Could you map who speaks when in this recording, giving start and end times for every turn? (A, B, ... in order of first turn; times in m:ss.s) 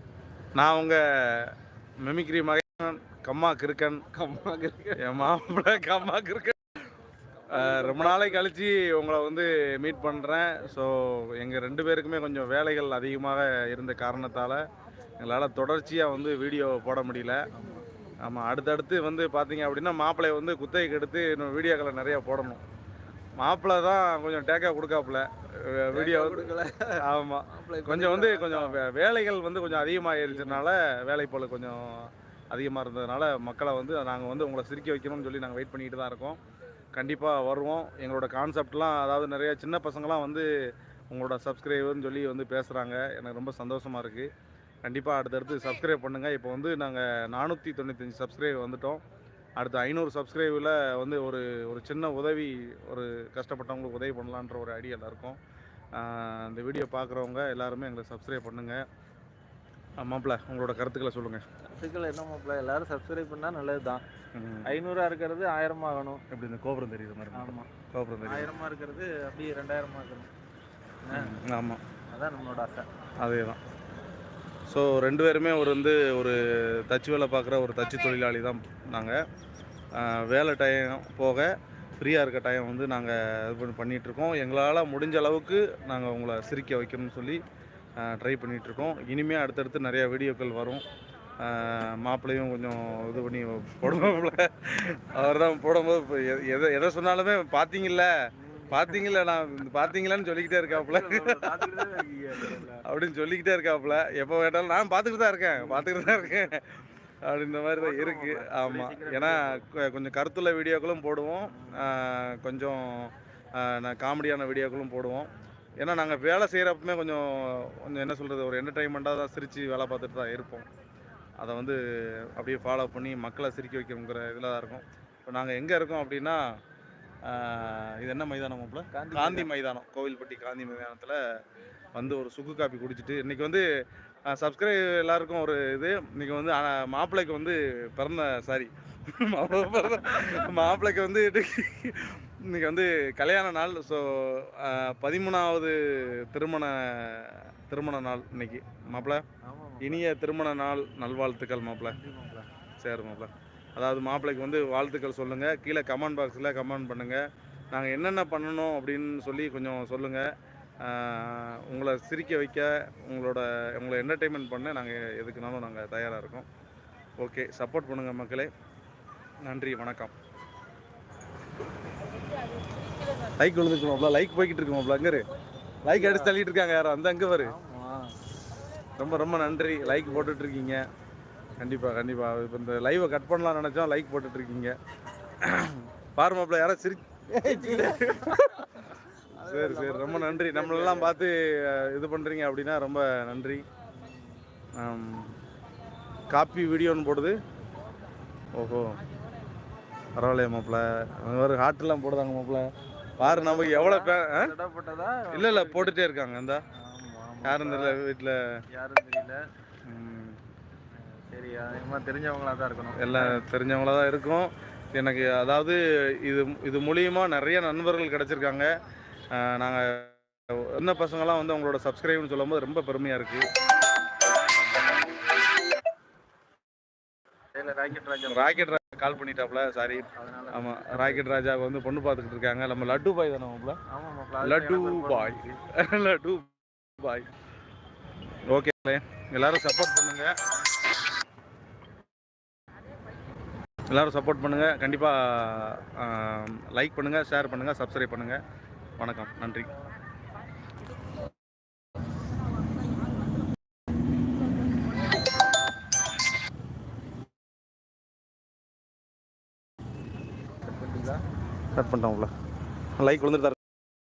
0:00.6-0:04.0 A
0:04.1-0:05.3 B
0:05.0-0:06.6 A
0:07.4-0:08.5 B
0:07.5-0:14.6 A
0:15.2-0:17.4 A
0:17.5-0:17.9 B
0:18.2-0:22.6 A
0:23.4-0:26.5 A
0:25.9-0:28.8 B
0:27.0-0:36.4 A
0:29.6-0:30.6 B
0:36.9-0:40.5 A
0:41.1-0:44.3 A
0:44.8-0:49.0 A
0:49.6-0:55.4 A
0:55.9-0:58.8 A
1:00.0-1:01.4 A
1:01.7-1:04.0 B
1:04.3-1:04.7 A
1:04.6-1:06.2 B
1:06.3-1:08.5 A
1:07.3-1:07.7 B
1:08.2-1:10.3 B
1:11.0-1:11.3 B
1:11.1-1:11.8 A
1:12.1-1:12.9 B
1:13.2-1:13.6 A
1:14.7-1:19.2 A
1:19.9-1:27.4 A
1:28.0-1:30.8 A
1:31.4-1:38.1 A
1:33.9-1:34.2 B
1:38.4-1:39.1 B
1:38.7-1:41.6 A
1:40.7-1:42.8 B
1:42.8-1:46.7 A
1:45.5-1:46.4 B
1:47.2-1:55.3 A
1:47.8-1:49.6 B
1:51.4-1:51.9 B
1:55.8-2:00.6 A
2:01.4-2:06.4 A
2:07.2-2:11.2 A
2:08.9-2:09.5 B
2:11.9-2:13.6 A
2:14.3-2:29.2 A
2:20.2-2:20.5 B
2:28.9-2:30.0 B
2:29.8-2:32.0 A
2:31.8-2:32.5 B
2:32.8-2:40.3 A
2:40.8-2:46.4 A
2:47.2-2:48.5 A
2:49.4-2:50.1 A
2:53.4-2:55.2 A
2:55.8-2:57.5 A
2:55.9-2:56.3 B
2:57.4-2:58.1 B
2:59.0-3:00.8 A
2:59.1-3:00.3 B
3:01.6-3:04.7 A
3:05.4-3:08.3 A
3:07.3-3:11.2 B
3:09.4-3:13.6 A
3:13.9-3:14.4 B
3:14.8-3:15.3 A
3:16.3-3:17.4 A
3:18.6-3:19.0 A
3:20.2-3:24.5 A
3:23.2-3:26.0 B
3:25.3-3:26.6 A
3:26.7-3:28.0 B
3:27.4-3:28.6 A
3:28.7-3:29.4 B
3:29.9-3:30.4 A
3:30.9-3:33.4 B
3:33.0-3:38.7 A
3:39.3-3:43.4 A
3:44.6-3:45.3 B
3:47.5-3:48.7 B
3:48.3-3:53.8 A
3:50.1-3:51.4 B
3:53.9-3:55.6 B
3:54.4-3:57.3 A
3:58.5-4:00.3 A
4:03.9-4:08.4 A
4:09.0-4:09.7 A
4:20.6-4:21.2 B
4:21.7-4:22.3 A
4:23.0-4:23.6 A